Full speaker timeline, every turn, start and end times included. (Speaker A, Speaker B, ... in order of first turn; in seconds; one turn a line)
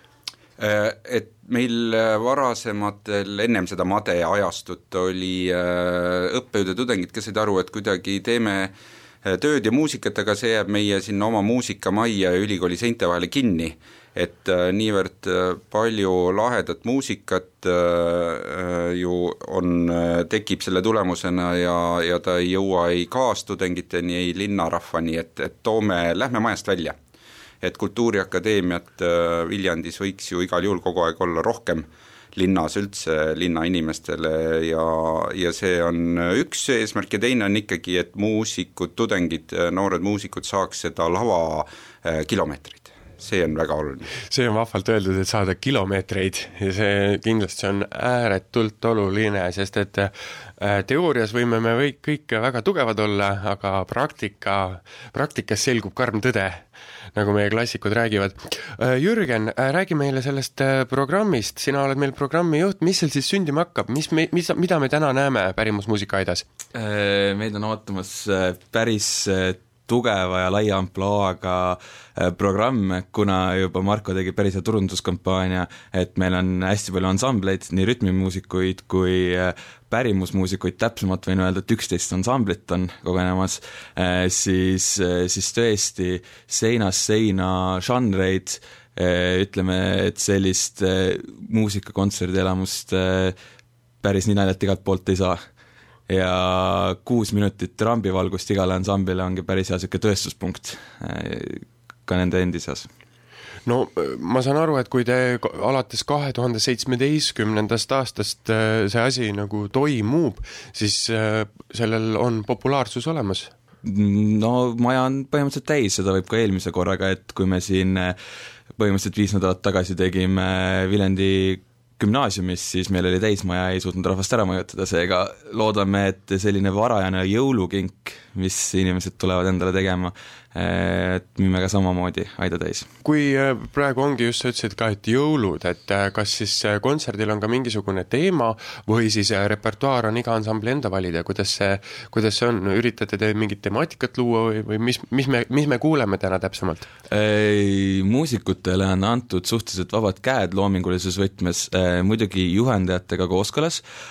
Speaker A: 0.6-27.0
Speaker A: 27.6-44.1
Speaker B: 44.2-66.5
Speaker C: 66.8-93.3
Speaker C: 94.0-95.4
Speaker C: 96.1-102.9
Speaker B: 103.7-113.5
Speaker C: 113.8-118.2
Speaker C: 118.8-132.9
Speaker B: 133.0-146.9
Speaker C: 147.1-153.8